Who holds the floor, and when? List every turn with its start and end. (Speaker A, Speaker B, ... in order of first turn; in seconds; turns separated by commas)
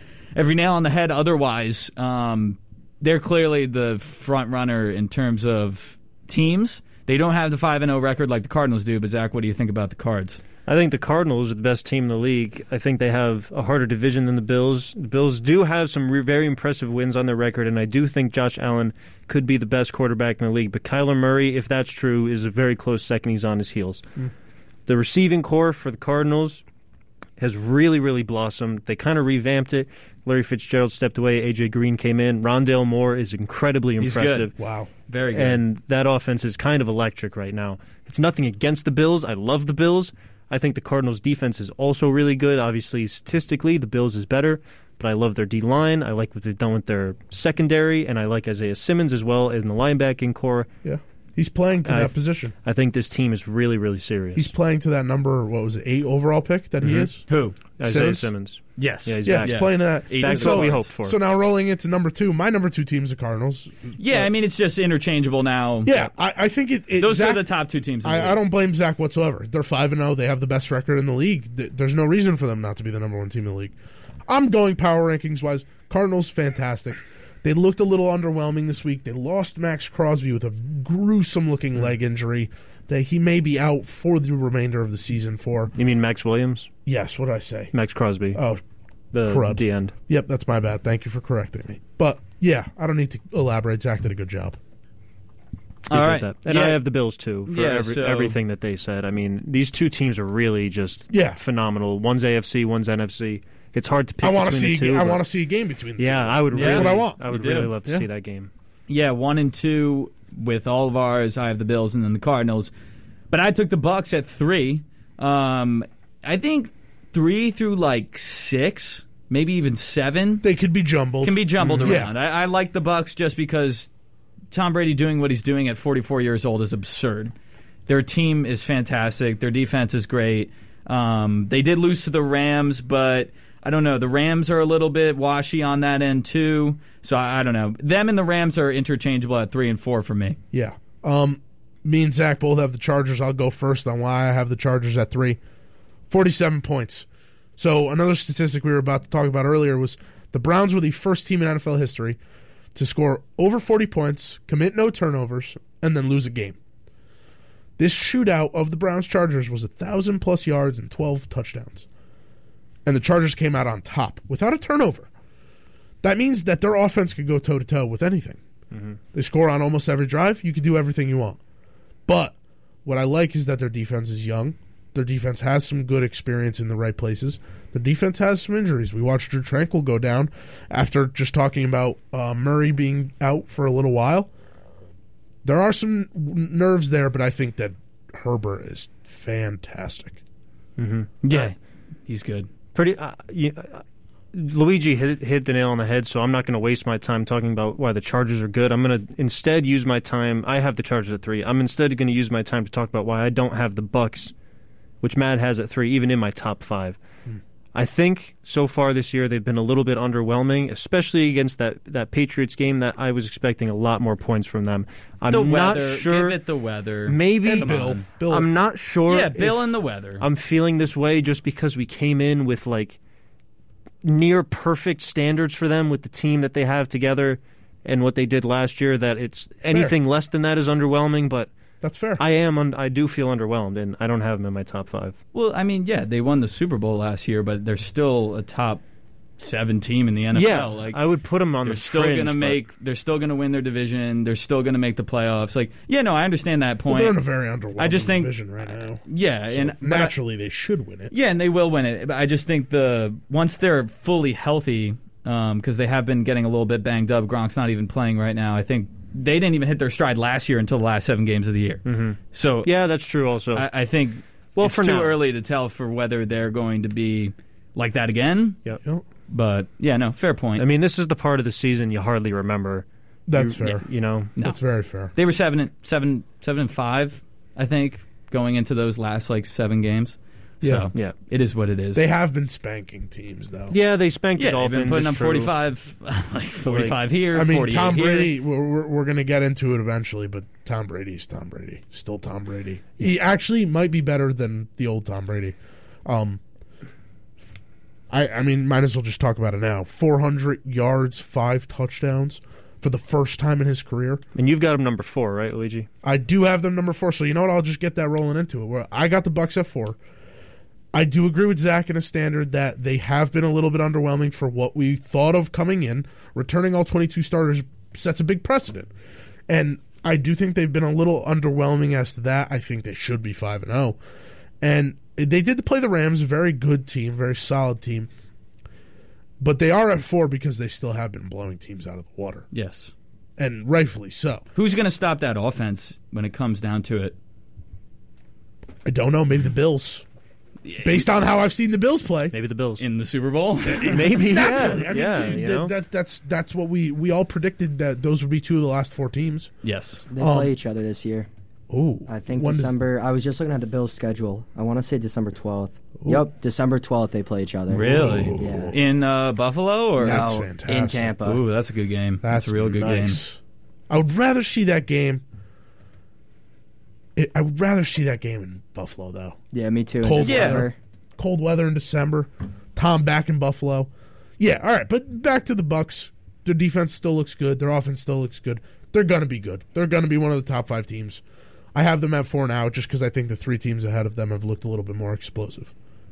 Speaker A: 0.3-10.4, Speaker B: 10.7-24.1, Speaker B: 24.9-26.6, Speaker B: 27.4-34.5, Speaker A: 34.0-34.5, Speaker C: 34.6-34.9, Speaker A: 35.1-35.6, Speaker B: 35.3-50.7, Speaker C: 50.8-52.5, Speaker B: 51.8-54.5, Speaker C: 54.3-57.2, Speaker B: 56.8-57.1, Speaker A: 57.3-57.6, Speaker B: 57.8-61.2, Speaker C: 57.8-58.3, Speaker A: 58.8-60.9, Speaker C: 59.2-64.3, Speaker A: 64.0-66.0, Speaker C: 65.8-67.5, Speaker A: 67.0-68.4, Speaker C: 68.0-73.7, Speaker C: 74.3-85.7, Speaker B: 85.7-86.7, Speaker C: 86.8-87.7, Speaker B: 87.7-88.4, Speaker C: 88.3-88.6, Speaker B: 89.1-89.9, Speaker C: 89.2-94.6, Speaker A: 95.9-96.8, Speaker B: 95.9-105.2, Speaker A: 97.5-98.3, Speaker C: 101.1-101.4, Speaker C: 104.2-108.0, Speaker B: 106.0-108.5, Speaker A: 106.5-107.7, Speaker A: 108.9-112.7, Speaker A: 113.3-120.5, Speaker C: 120.4-122.1, Speaker A: 121.2-123.9, Speaker B: 121.6-122.0, Speaker A: 124.5-127.3, Speaker A: 127.9-140.4, Speaker C: 140.5-145.4, Speaker C: 146.1-147.1, Speaker C: 147.6-152.2, Speaker C: 152.7-156.6, Speaker C: 157.8-161.8, Speaker C: 162.8-165.1, Speaker C: 166.0-168.4, Speaker B: 168.7-169.0, Speaker C: 169.1-171.4, Speaker C: 172.1-184.3, Speaker C: 185.4-190.2, Speaker B: 190.8-191.5, Speaker A: 191.2-191.6, Speaker A: 192.1-192.5, Speaker B: 192.7-204.3, Speaker B: 205.0-207.0, Speaker B: 207.7-216.4, Speaker A: 215.3-218.0, Speaker B: 217.1-219.6, Speaker C: 217.4-218.5, Speaker A: 219.1-220.2, Speaker B: 220.2-223.0, Speaker B: 224.0-231.5, Speaker C: 231.8-232.2, Speaker B: 232.2-235.2, Speaker A: 235.3-238.8, Speaker A: 239.4-241.0, Speaker B: 240.3-242.6, Speaker A: 241.6-247.2, Speaker C: 246.9-251.1, Speaker A: 247.8-250.1, Speaker A: 251.1-262.7, Speaker B: 261.8-263.6, Speaker A: 263.5-268.6, Speaker B: 264.6-265.2, Speaker A: 269.3-270.6, Speaker B: 270.6-274.3, Speaker C: 273.3-273.9, Speaker C: 274.4-275.1, Speaker A: 275.1-282.1, Speaker C: 280.6-280.9, Speaker C: 281.9-283.7, Speaker B: 283.7-285.5, Speaker A: 284.4-288.3, Speaker B: 286.6-287.0, Speaker C: 287.3-296.4, Speaker C: 298.1-304.2, Speaker B: 304.4-305.9, Speaker C: 306.0-310.0, Speaker C: 310.9-318.9, Speaker C: 319.5-324.0, Speaker C: 324.6-328.1, Speaker C: 329.4-332.4, Speaker A: 332.5-332.9, Speaker C: 333.4-334.4, Speaker A: 334.5-337.1, Speaker C: 338.8-340.0, Speaker A: 340.6-341.1, Speaker C: 340.8-342.3, Speaker B: 342.3-342.8, Speaker A: 342.8-344.7, Speaker C: 343.7-349.5, Speaker B: 343.9-345.7, Speaker A: 349.6-350.0, Speaker D: 350.1-351.3, Speaker C: 350.2-350.5, Speaker C: 351.7-352.8, Speaker D: 352.1-358.7, Speaker A: 357.7-360.3, Speaker C: 357.7-358.8, Speaker C: 360.0-361.1, Speaker D: 360.0-361.4, Speaker A: 361.2-363.2, Speaker C: 362.2-363.4, Speaker C: 363.9-365.2, Speaker C: 367.1-369.4, Speaker D: 369.5-370.8, Speaker C: 370.0-381.2, Speaker A: 370.2-370.6, Speaker C: 381.7-385.7